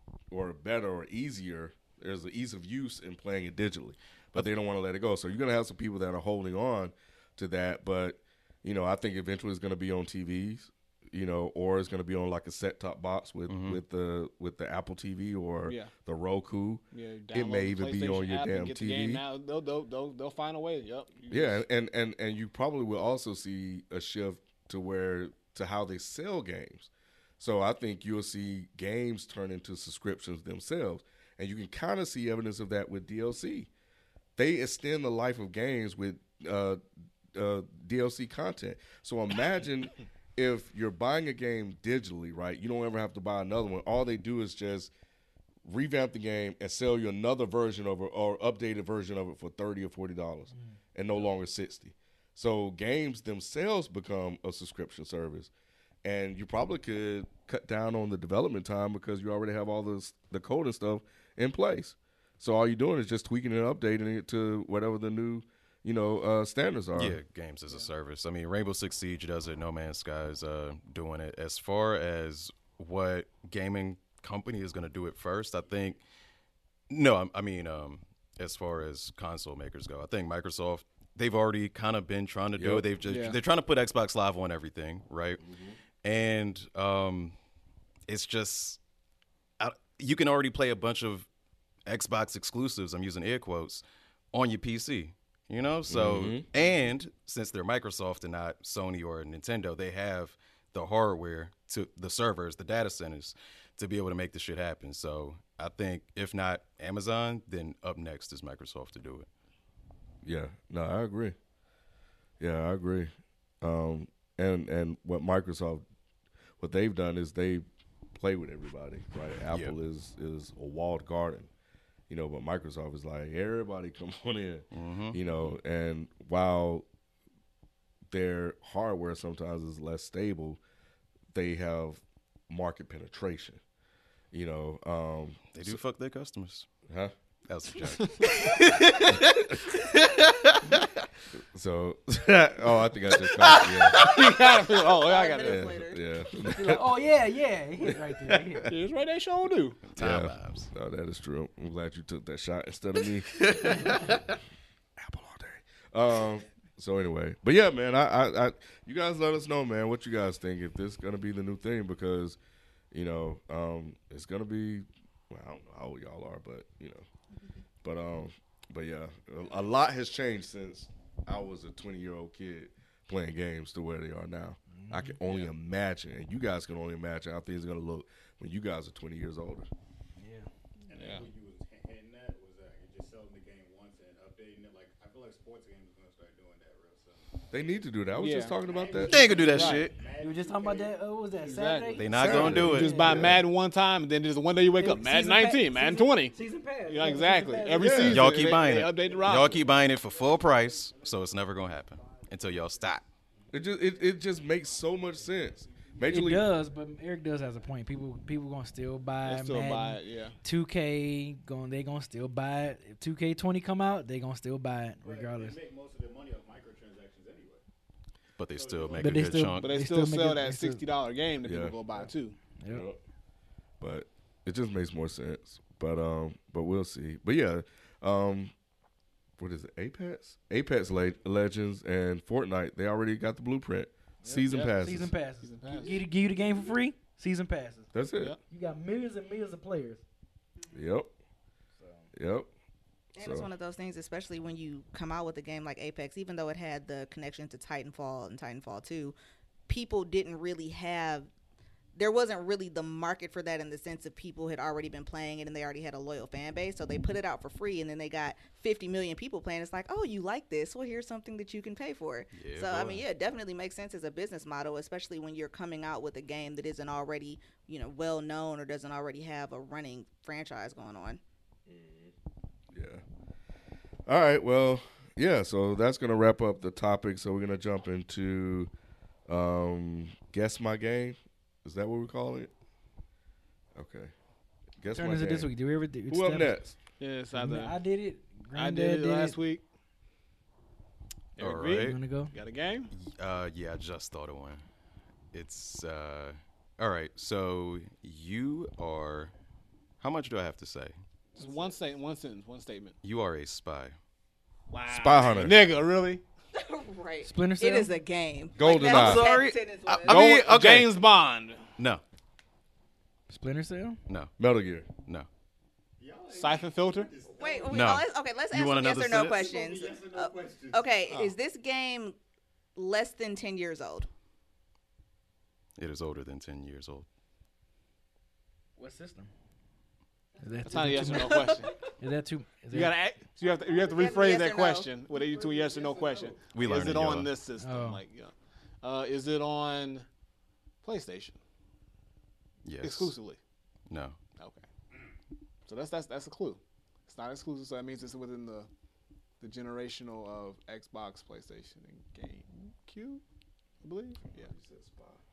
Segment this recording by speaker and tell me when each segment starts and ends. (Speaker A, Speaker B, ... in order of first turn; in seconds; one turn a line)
Speaker A: 0.3-19.2
Speaker B: 13.5-13.8
Speaker C: 15.7-15.9
Speaker C: 16.9-21.6
Speaker A: 21.3-33.7
Speaker A: 34.4-36.8
Speaker A: 37.3-44.9
Speaker A: 45.6-55.5
Speaker A: 56.0-67.2
Speaker B: 66.9-76.0
Speaker B: 76.9-85.4
Speaker A: 82.5-82.8
Speaker C: 83.1-83.4
Speaker A: 85.4-85.7
Speaker B: 86.0-87.3
Speaker B: 88.1-88.8
Speaker B: 89.6-91.3
Speaker B: 91.9-109.3
Speaker A: 95.9-96.4
Speaker A: 110.2-111.3
Speaker A: 112.4-115.8
Speaker A: 116.6-117.6
Speaker A: 118.2-121.5
Speaker A: 122.1-126.8
Speaker B: 124.7-125.2
Speaker A: 128.1-130.6
Speaker A: 131.3-133.6
Speaker A: 134.3-135.8
Speaker B: 135.5-136.7
Speaker B: 137.5-140.9
Speaker C: 138.0-138.3
Speaker A: 141.4-144.0
Speaker B: 143.4-144.4
Speaker C: 143.9-145.7
Speaker D: 144.9-146.0
Speaker A: 145.4-146.8
Speaker E: 146.6-148.7
Speaker C: 148.7-149.9
Speaker B: 149.9-150.7
Speaker A: 150.0-154.2
Speaker B: 153.3-154.4
Speaker A: 155.0-162.4
Speaker A: 162.9-167.1
Speaker A: 167.8-179.7
Speaker E: 174.7-175.2
Speaker E: 180.2-180.5
Speaker F: 180.9-187.5
Speaker C: 180.9-181.2
Speaker A: 187.5-189.3
Speaker C: 188.1-188.6
Speaker F: 188.6-191.0
Speaker B: 189.0-190.0
Speaker C: 189.4-189.9
Speaker E: 190.2-193.4
Speaker C: 191.4-199.6
Speaker B: 192.0-192.9
Speaker A: 192.1-193.4
Speaker E: 194.8-198.2
Speaker A: 197.8-198.3
Speaker B: 198.1-203.1
Speaker F: 198.5-206.0
Speaker A: 203.5-206.5
Speaker E: 206.1-215.6
Speaker C: 209.2-210.4
Speaker F: 215.0-217.6
Speaker B: 218.4-219.8
Speaker F: 218.5-219.5
Speaker E: 219.0-220.8
Speaker C: 219.6-222.4
Speaker A: 221.4-221.8
Speaker E: 222.6-222.8
Speaker A: 222.7-223.0
Speaker A: 223.8-228.5
Speaker A: 229.4-235.1
Speaker F: 230.9-231.2
Speaker E: 234.2-237.9
Speaker C: 235.4-236.0
Speaker A: 237.9-238.3
Speaker E: 238.5-240.0
Speaker A: 240.7-241.1
Speaker A: 242.1-242.5
Speaker D: 243.2-249.1
Speaker A: 243.2-243.5
Speaker D: 249.7-251.3
Speaker D: 252.0-271.2
Speaker B: 262.3-263.0
Speaker A: 271.7-272.1
Speaker A: 272.7-273.0
Speaker A: 274.1-278.7
Speaker A: 279.3-282.5
Speaker A: 283.7-284.1
Speaker A: 284.8-285.5
Speaker E: 284.9-286.6
Speaker A: 286.1-286.8
Speaker C: 287.0-287.8
Speaker E: 287.3-289.4
Speaker C: 288.6-289.6
Speaker C: 291.4-292.9
Speaker B: 291.4-292.0
Speaker E: 291.7-292.3
Speaker B: 292.9-294.6
Speaker B: 295.3-299.3
Speaker B: 300.0-300.9
Speaker F: 301.3-302.0
Speaker C: 301.4-302.9
Speaker B: 303.0-303.9
Speaker C: 304.7-306.2
Speaker A: 304.9-305.6
Speaker D: 306.6-310.4
Speaker E: 307.2-307.9
Speaker A: 308.6-309.3
Speaker B: 308.8-310.9
Speaker C: 310.1-311.6
Speaker E: 313.3-314.0
Speaker A: 314.4-314.9
Speaker F: 316.0-318.0
Speaker C: 316.3-317.1
Speaker D: 317.4-322.1
Speaker B: 317.7-319.4
Speaker F: 319.3-321.0
Speaker D: 322.8-324.1
Speaker B: 325.8-327.1
Speaker E: 328.8-329.3
Speaker F: 330.4-331.8
Speaker E: 330.4-332.9
Speaker C: 330.6-331.7
Speaker C: 332.7-340.1
Speaker F: 333.4-334.2
Speaker D: 333.8-335.0
Speaker F: 335.1-336.9
Speaker B: 336.5-337.3
Speaker E: 337.6-338.0
Speaker C: 340.8-341.4
Speaker B: 342.6-343.1
Speaker C: 342.8-343.4
Speaker B: 343.9-344.2
Speaker C: 344.4-344.6
Speaker C: 345.6-348.7
Speaker C: 349.4-353.2
Speaker C: 353.8-354.5
Speaker A: 354.3-355.2